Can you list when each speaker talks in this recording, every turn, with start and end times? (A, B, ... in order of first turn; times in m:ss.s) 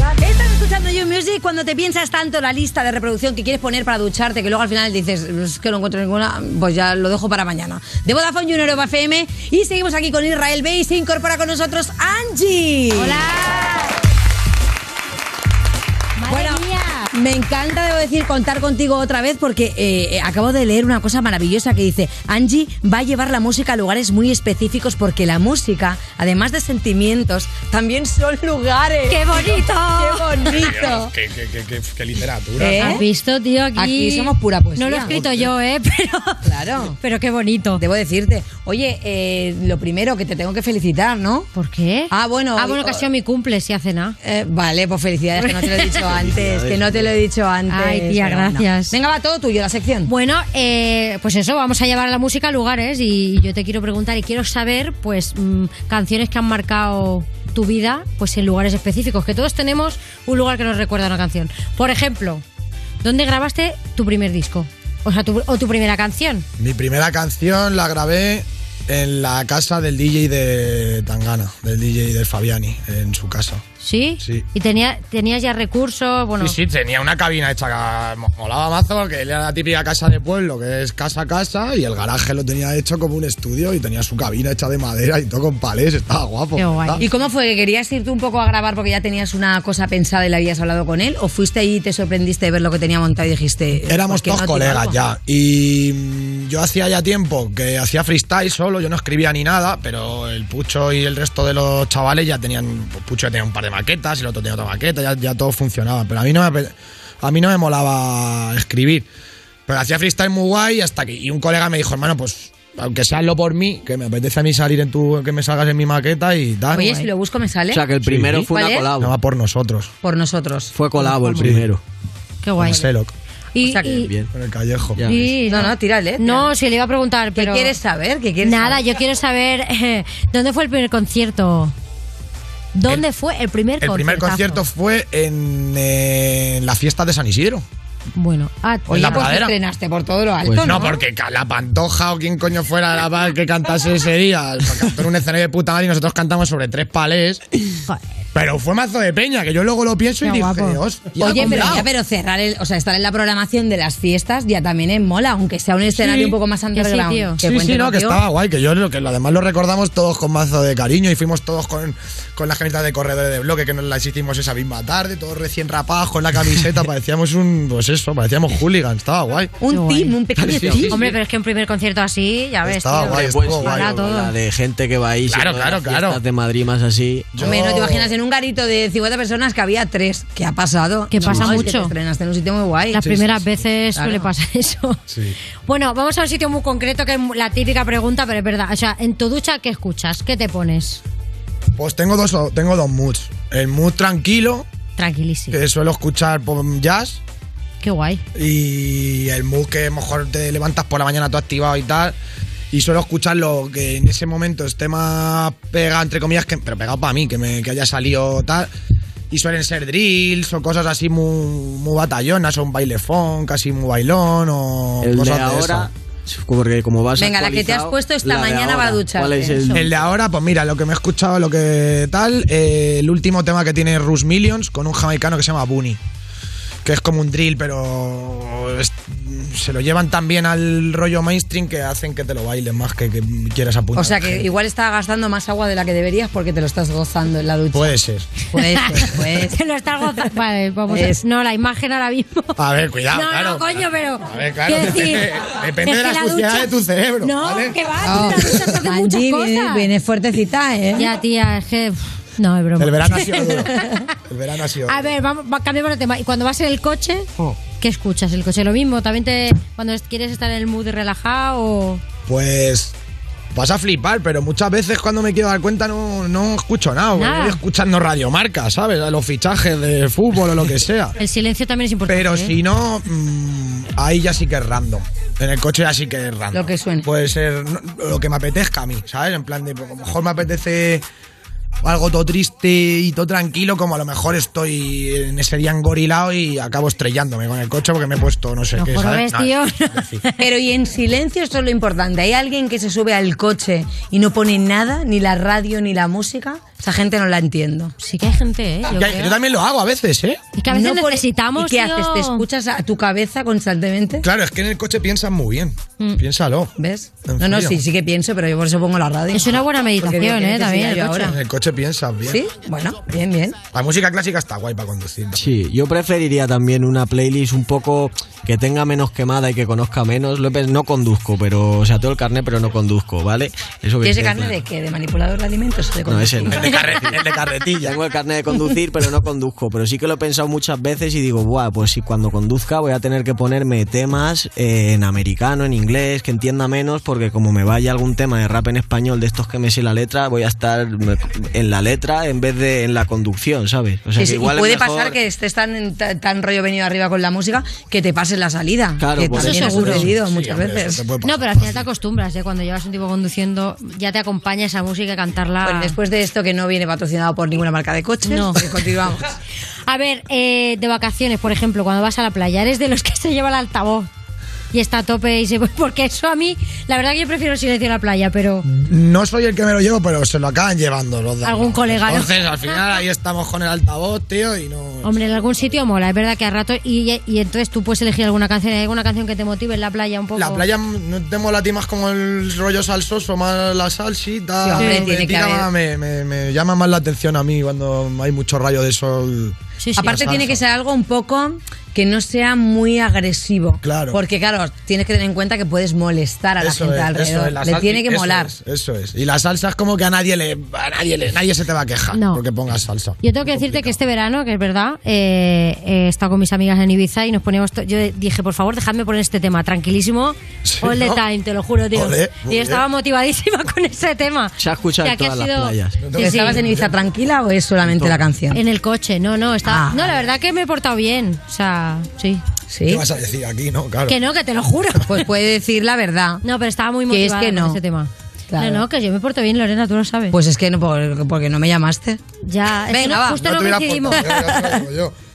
0:00.2-0:13.2 A
0:12.9-0:13.9 B
0:16.2-0:17.1 B
0:16.3-0:31.1 A
0:29.1-0:30.7 B
0:30.6-0:33.0 C
0:32.6-0:33.0 A
0:32.7-0:36.4 B
0:33.8-0:35.2 A
0:35.2-0:35.5 C
0:36.4-0:37.0 A
0:37.0-0:37.8 B
0:37.8-0:41.5 A
0:41.5-0:44.1 B
0:42.1-0:43.0 A
0:44.2-0:50.1 A
0:45.4-0:45.9 B
0:46.0-0:47.1 D
0:47.7-0:49.0 B
0:50.0-1:02.4 B
1:03.0-1:06.4 B
1:06.6-1:13.6 C
1:13.8-1:16.6 B
1:16.4-1:27.0 C
1:26.6-1:27.0 B
1:27.0-1:35.0 A
1:33.9-1:49.1 C
1:49.7-1:57.0 C
1:56.7-1:57.8 A
1:57.7-1:59.2 D
1:58.0-1:59.9 C
1:58.5-1:58.8 A
2:00.0-2:01.1 A
2:00.7-2:01.8 D
2:01.4-2:01.7 C
2:02.4-2:02.9 B
2:02.6-2:03.1 C
2:03.5-2:04.1 B
2:03.6-2:04.0 A
2:03.9-2:04.3 D
2:04.3-2:05.0 C
2:05.0-2:05.3 D
2:05.0-2:07.8 B
2:05.5-2:06.5 A
2:07.3-2:08.8 A
2:08.4-2:11.7 B
2:12.7-2:14.6 B
2:13.8-2:17.6 C
2:18.2-2:19.4 B
2:18.9-2:21.0 A
2:18.9-2:19.5 C
2:20.6-2:27.4 C
2:28.3-2:31.9 C
2:30.2-2:31.8 B
2:31.2-2:38.2 A
2:36.0-2:37.4 B
2:37.4-2:49.5 C
2:49.6-2:51.0 A
2:49.7-2:50.2 B
2:50.4-2:51.2 C
2:50.9-2:54.3 B
2:52.6-2:53.9 C
2:53.0-2:57.3 D
2:55.3-2:56.2 C
2:57.3-2:58.1 C
2:57.4-3:03.1 A
3:01.1-3:01.9 B
3:02.9-3:05.0 B
3:03.0-3:03.5 C
3:03.9-3:04.2 A
3:05.1-3:05.4 C
3:05.6-3:11.0 B
3:11.7-3:14.7 C
3:15.0-3:15.6 B
3:15.5-3:17.2 C
3:17.8-3:18.2 B
3:18.3-3:22.2 C
3:22.7-3:28.7 C
3:29.3-3:35.9 C
3:35.0-3:39.9 D
3:37.2-3:39.7 A
3:39.7-3:46.0 C
3:46.8-3:54.4 C
3:53.9-3:57.9 A
3:57.7-3:58.3 C
3:58.5-3:59.6 A
3:58.6-4:02.5 B
4:00.9-4:01.2 A
4:02.6-4:08.6 C
4:03.1-4:06.7 B
4:07.2-4:09.9 B
4:08.0-4:11.1 A
4:10.9-4:14.1 B
4:12.8-4:15.2 C
4:14.9-4:22.0 B
4:22.2-4:22.9 C
4:23.5-4:31.2 C
4:27.2-4:27.6 B
4:31.2-4:32.5 B
4:32.1-4:41.0 C
4:36.5-4:37.1 A
4:41.8-4:50.2 C
4:48.8-4:50.4 B
4:50.4-4:57.9 A
4:58.0-4:59.3 B
4:58.9-5:00.4 C
5:00.5-5:02.4 B
5:00.7-5:04.2 A
5:04.2-5:06.7 C
5:06.8-5:11.3 A
5:07.3-5:07.8 C
5:09.3-5:11.3 B
5:11.2-5:12.4 C
5:12.3-5:13.6 A
5:13.7-5:15.5 C
5:15.4-5:24.6 D
5:24.0-5:26.8 A
5:26.0-5:27.1 D
5:26.5-5:28.0 C
5:27.8-5:45.2 D
5:44.2-5:51.0 A
5:49.0-5:50.1 D
5:49.3-5:50.1 B
5:50.1-5:51.8 C
5:51.2-5:56.0 B
5:55.6-5:59.4 A
5:58.2-5:58.6 B
5:59.9-6:04.1 B
6:04.7-6:08.7 B
6:08.8-6:15.8 C
6:11.4-6:12.3 B
6:15.0-6:20.6 B
6:20.3-6:30.6 C
6:24.6-6:25.7 A
6:24.8-6:25.1 B
6:29.8-6:30.3 B
6:30.0-6:38.5 A
6:33.8-6:34.2 C
6:36.6-6:44.0 C
6:42.1-6:42.4 B
6:43.2-6:56.6 B
6:50.6-6:51.2 C
6:51.9-6:52.8 C
6:54.6-6:56.0 D
6:56.0-6:56.9 C
6:56.2-6:58.6 A
6:57.9-6:58.1 D
6:58.5-7:02.4 B
6:59.6-7:00.2 A
7:02.7-7:03.0 A
7:02.8-7:04.2 C
7:04.1-7:05.3 B
7:05.1-7:06.4 A
7:06.4-7:10.3 B
7:07.1-7:07.8 A
7:08.5-7:08.8 A
7:10.3-7:12.2 A
7:12.4-7:14.4 B
7:12.9-7:13.4 A
7:13.3-7:15.1 C
7:14.3-7:14.8 A